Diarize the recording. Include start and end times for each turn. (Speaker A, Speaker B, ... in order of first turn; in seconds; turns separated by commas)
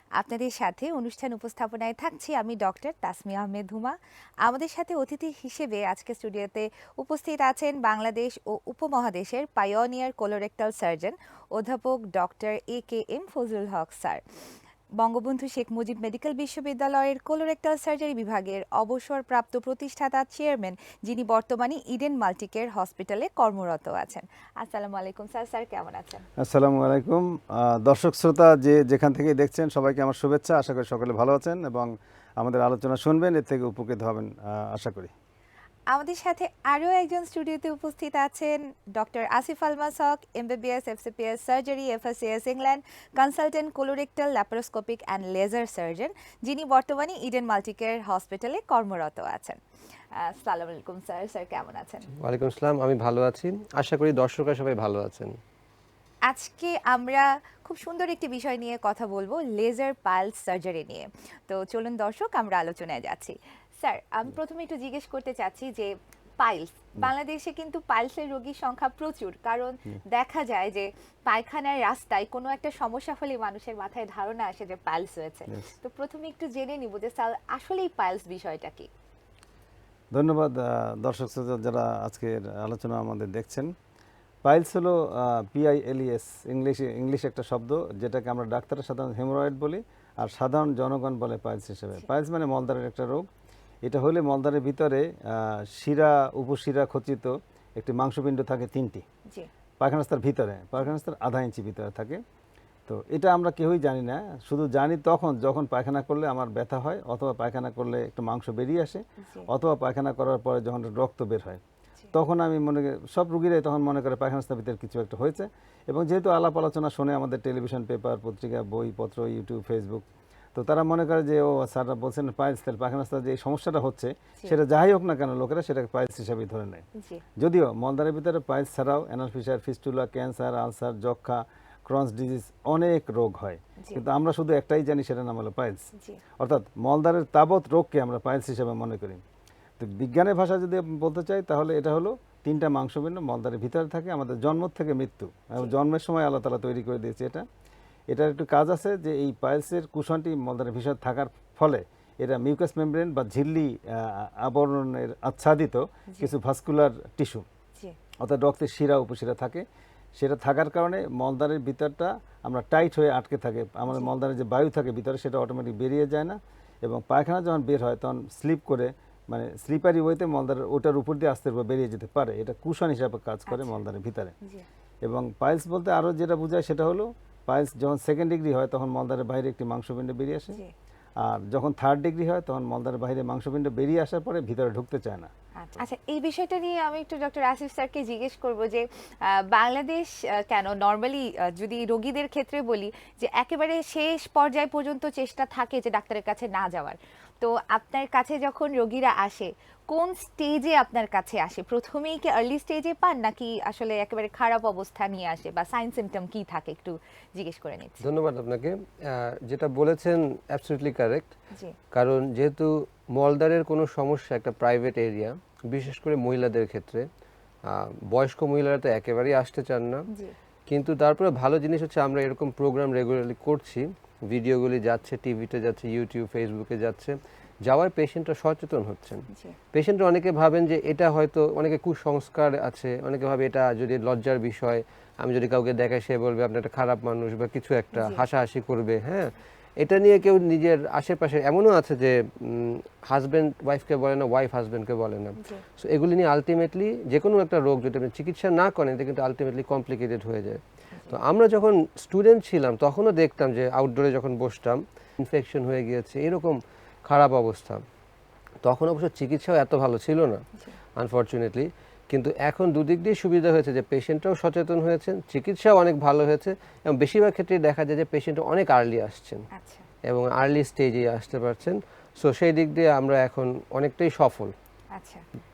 Speaker A: 0.2-14.2, Speaker A: 15.0-26.2, Speaker B: 26.4-35.1, Speaker A: 35.9-49.6, Speaker A: 50.1-52.1, Speaker C: 52.2-55.4, Speaker A: 56.3-65.9, Speaker A: 66.4-78.9, Speaker B: 80.1-83.7, Speaker B: 84.4-93.3, Speaker B: 93.8-99.0, Speaker B: 99.8-102.2, Speaker B: 102.9-111.6, Speaker A: 109.2-109.5, Speaker B: 112.1-120.0, Speaker B: 120.5-126.8, Speaker A: 127.0-127.2, Speaker B: 127.4-135.8, Speaker B: 136.4-139.2, Speaker B: 139.8-147.4, Speaker B: 148.1-157.4, Speaker B: 158.2-159.6, Speaker B: 160.2-174.3, Speaker A: 173.5-173.8, Speaker B: 175.0-180.6, Speaker B: 181.2-185.3, Speaker A: 185.6-208.0, Speaker C: 208.0-211.3, Speaker C: 211.9-217.1, Speaker C: 217.7-220.1, Speaker C: 220.7-257.8, Speaker A: 229.3-229.6, Speaker A: 237.9-238.2, Speaker A: 245.4-245.6, Speaker A: 250.9-251.2, Speaker C: 258.6-260.4, Speaker C: 261.0-269.4, Speaker A: 269.5-269.9, Speaker C: 270.1-274.5, Speaker A: 274.9-275.2